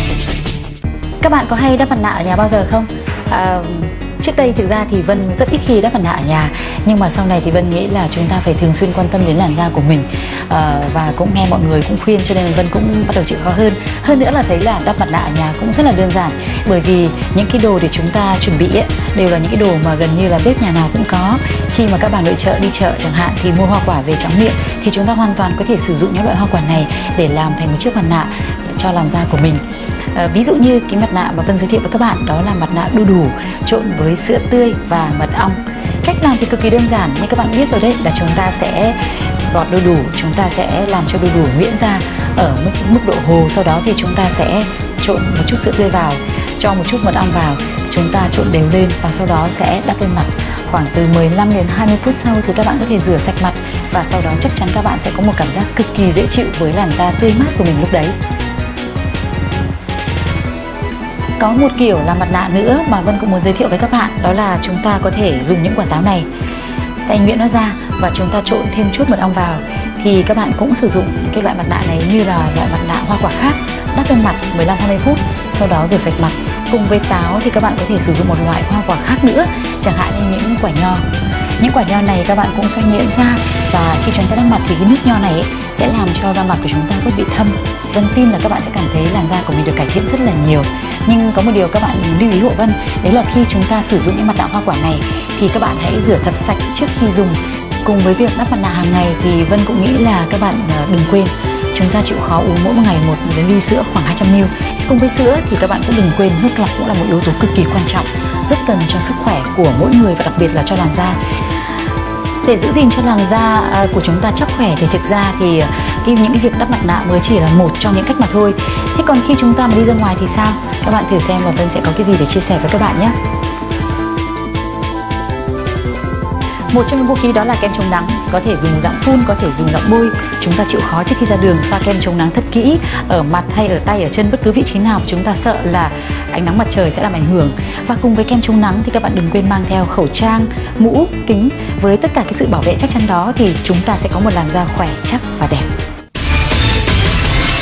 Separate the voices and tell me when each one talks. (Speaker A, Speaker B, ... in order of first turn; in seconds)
Speaker A: 1.2-29.6, 30.1-39.0, 39.5-58.1, 61.4-66.3, 67.0-81.0, 81.6-111.2, 112.4-123.2, 126.7-145.7